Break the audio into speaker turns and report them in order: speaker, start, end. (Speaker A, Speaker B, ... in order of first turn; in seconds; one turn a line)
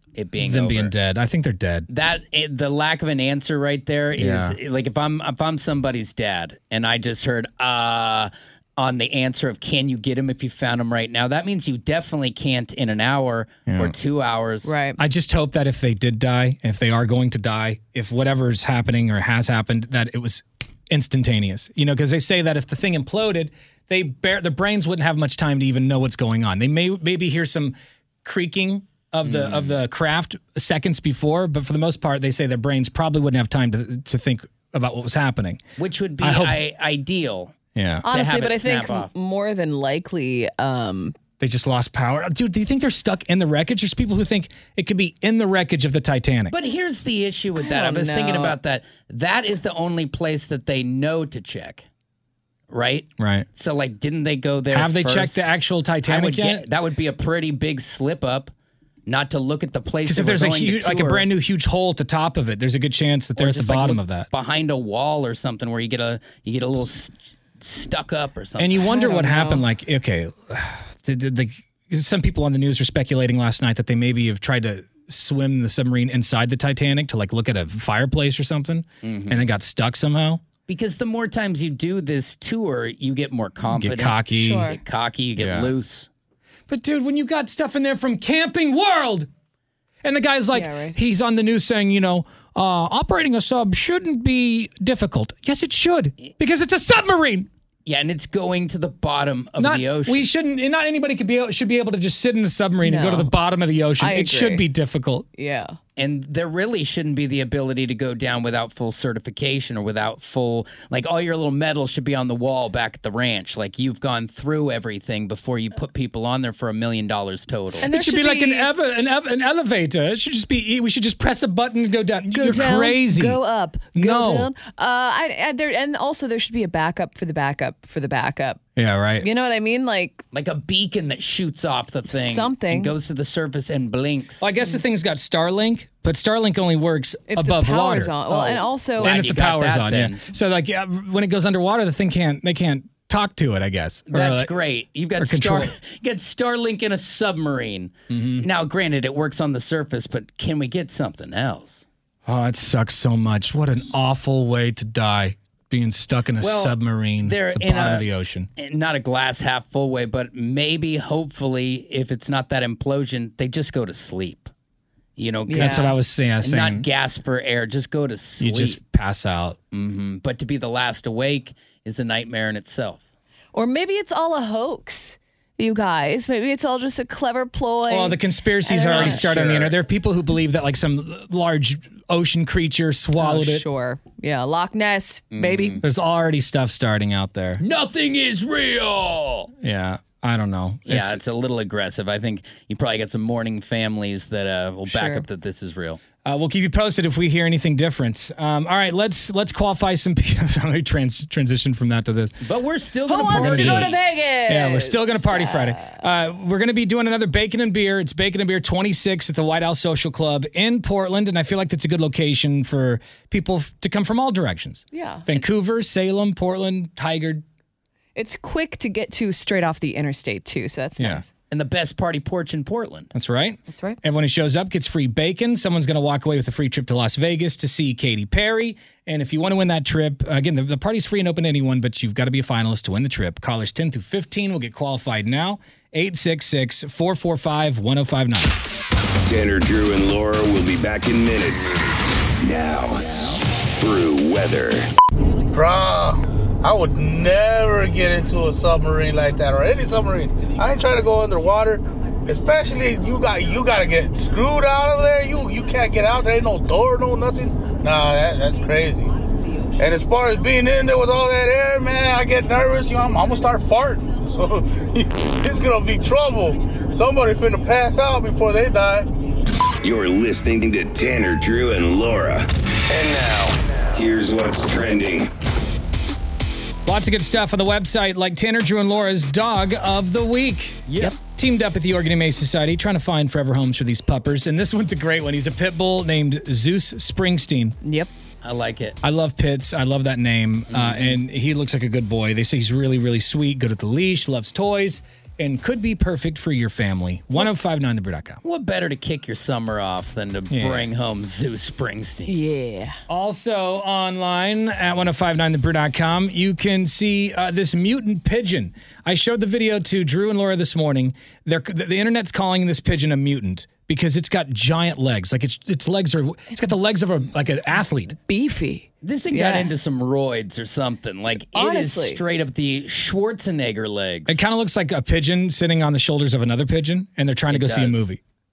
Speaker A: 0.1-0.9
Speaker B: 0.4-1.9
Speaker A: 1.9-14.7
Speaker B: 4.2-4.5
Speaker B: 13.7-13.9
Speaker C: 14.6-15.0
Speaker B: 15.0-35.6
Speaker A: 29.2-29.8
Speaker A: 35.8-39.1
Speaker B: 36.2-36.6
Speaker B: 37.7-38.0
Speaker C: 38.0-41.1
Speaker B: 41.4-46.5
Speaker A: 46.5-51.9
Speaker C: 47.6-48.5
Speaker A: 52.7-55.4
Speaker B: 53.2-53.5
Speaker B: 54.7-56.6
Speaker A: 56.0-58.5
Speaker A: 59.1-61.2
Speaker B: 60.0-64.3
Speaker A: 63.4-68.7
Speaker B: 68.6-80.4
Speaker C: 68.8-69.6
Speaker A: 79.0-79.4
Speaker A: 80.7-86.1
Speaker B: 83.7-84.7
Speaker C: 84.3-84.8
Speaker B: 86.7-89.3
Speaker B: 90.0-97.5
Speaker C: 90.5-91.0
Speaker A: 97.8-100.2
Speaker B: 99.6-105.2
Speaker C: 102.8-103.3
Speaker C: 104.0-104.6
Speaker C: 105.4-105.8
Speaker A: 106.0-117.9
Speaker C: 117.8-118.7
Speaker B: 117.8-123.4
Speaker C: 122.3-128.6
Speaker B: 123.9-124.5
Speaker B: 128.8-129.3
Speaker C: 129.2-130.2
Speaker A: 130.3-134.4
Speaker C: 132.1-132.9
Speaker B: 134.4-138.2
Speaker C: 137.3-139.1
Speaker A: 138.3-140.2
Speaker B: 139.0-144.5
Speaker A: 144.1-151.8
Speaker B: 145.2-145.7
Speaker B: 148.1-148.5
Speaker B: 152.2-158.5
Speaker A: 156.4-164.5
Speaker A: 165.2-168.8
Speaker C: 165.5-165.9
Speaker B: 165.5-166.9
Speaker B: 168.4-169.6
Speaker A: 169.7-173.0
Speaker C: 173.5-179.2
Speaker B: 177.9-183.7
Speaker A: 178.8-179.8
Speaker C: 183.2-185.8
Speaker A: 185.3-185.8
Speaker B: 185.8-187.6
Speaker A: 187.6-189.5
Speaker B: 189.6-191.2
Speaker A: 190.9-196.0
Speaker C: 194.9-195.2
Speaker B: 196.2-202.4
Speaker A: 202.4-203.9
Speaker C: 203.1-206.0
Speaker B: 203.3-217.4
Speaker C: 214.9-215.3
Speaker C: 218.1-221.3
Speaker B: 221.0-221.2
Speaker A: 221.5-223.1
Speaker B: 223.1-238.6
Speaker C: 223.7-224.0
Speaker D: 239.3-241.8
Speaker D: 242.4-244.9
Speaker E: 245.5-259.1
Speaker E: 259.8-269.1
Speaker D: 269.8-275.3
Speaker B: 276.9-287.8
Speaker C: 287.8-288.1
Speaker A: 288.4-289.0
Speaker B: 289.0-298.4
Speaker A: 290.7-291.2
Speaker A: 298.4-302.3
Speaker B: 300.5-300.9
Speaker C: 302.3-303.0
Speaker B: 303.1-318.1
Speaker C: 318.1-319.7
Speaker A: 319.0-324.4
Speaker C: 321.5-322.2
Speaker B: 324.3-328.2
Speaker A: 327.5-328.0